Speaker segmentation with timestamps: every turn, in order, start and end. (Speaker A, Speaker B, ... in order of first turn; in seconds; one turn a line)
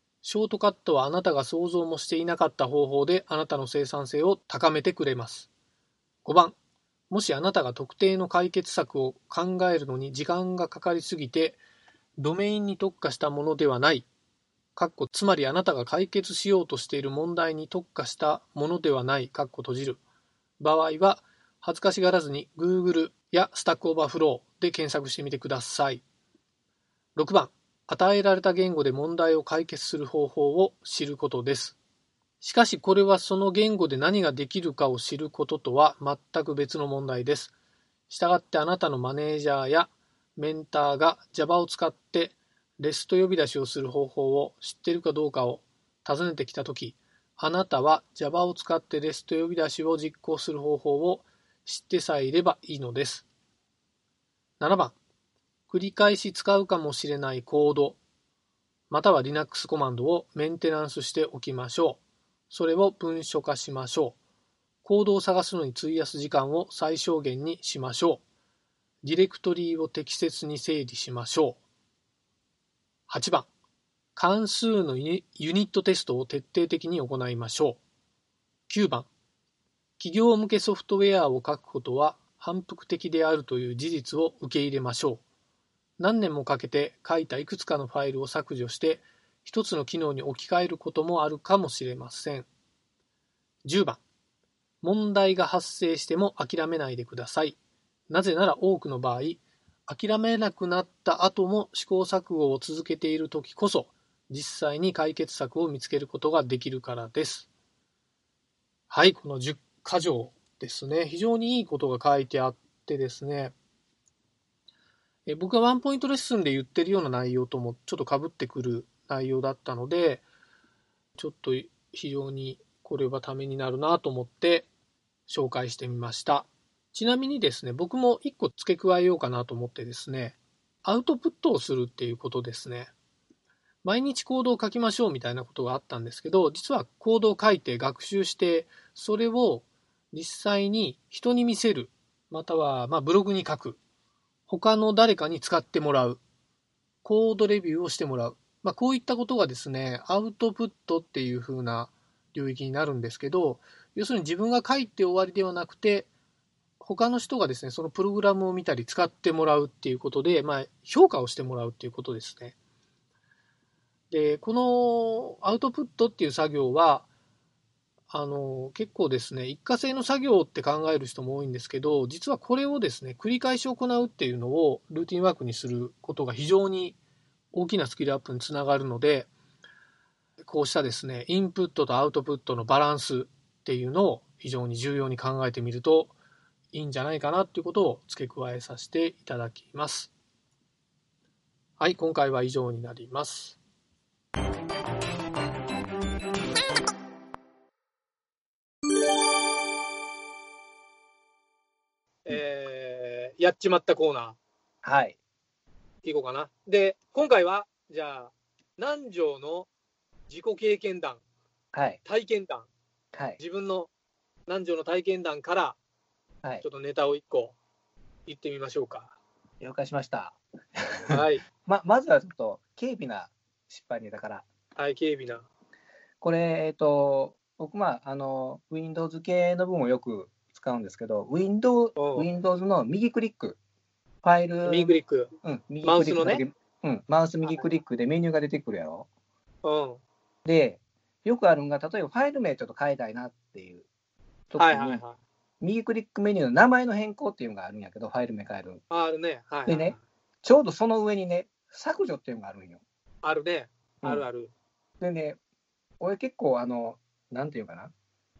Speaker A: 0.2-5.5
Speaker A: 6.2-6.5
Speaker A: 7.1-11.6
Speaker A: 12.2-14.1
Speaker A: 14.8-20.0
Speaker A: 20.6-26.0
Speaker A: 27.1-31.8
Speaker A: 32.4-37.5
Speaker A: 38.1-53.2
Speaker A: 54.6-54.9
Speaker A: 55.7-58.0
Speaker A: 58.9-64.2
Speaker A: 64.8-68.2
Speaker A: 69.0-71.6
Speaker A: 73.1-73.5
Speaker A: 74.2-77.8
Speaker A: 78.7-79.1
Speaker A: 80.0-85.2
Speaker A: 86.0-92.5
Speaker A: 93.6-94.0
Speaker A: 94.8-97.6
Speaker A: 98.1-107.5
Speaker A: 108.9-113.5
Speaker A: 115.3-120.2
Speaker A: 121.2-124.7
Speaker A: 125.3-132.9
Speaker A: 133.8-143.8
Speaker A: 144.5-146.2
Speaker A: 147.0-156.1
Speaker A: 156.8-162.6
Speaker A: 164.1-167.1
Speaker A: 168.1-177.0
Speaker A: 177.5-179.3
Speaker A: 180.4-186.1
Speaker A: 186.7-190.1
Speaker A: 191.8-193.6
Speaker B: 202.2-204.4
Speaker C: 204.8-205.2
Speaker B: 206.0-209.7
Speaker B: 210.3-211.2
Speaker C: 211.7-212.0
Speaker B: 212.0-212.7
Speaker C: 213.1-213.4
Speaker B: 213.4-213.9
Speaker B: 214.5-215.8
Speaker B: 216.6-217.6
Speaker B: 218.3-219.1
Speaker C: 219.6-224.4
Speaker B: 221.1-221.4
Speaker B: 224.8-225.4
Speaker C: 226.2-233.6
Speaker B: 231.9-232.3
Speaker C: 234.2-239.1
Speaker B: 234.6-235.3
Speaker B: 235.8-236.4
Speaker B: 239.6-240.0
Speaker C: 240.4-243.8
Speaker C: 244.5-245.0
Speaker B: 244.6-245.2
Speaker C: 245.6-248.8
Speaker B: 248.9-250.0
Speaker C: 249.7-252.8
Speaker B: 253.2-254.5
Speaker C: 255.0-255.4
Speaker C: 256.0-257.9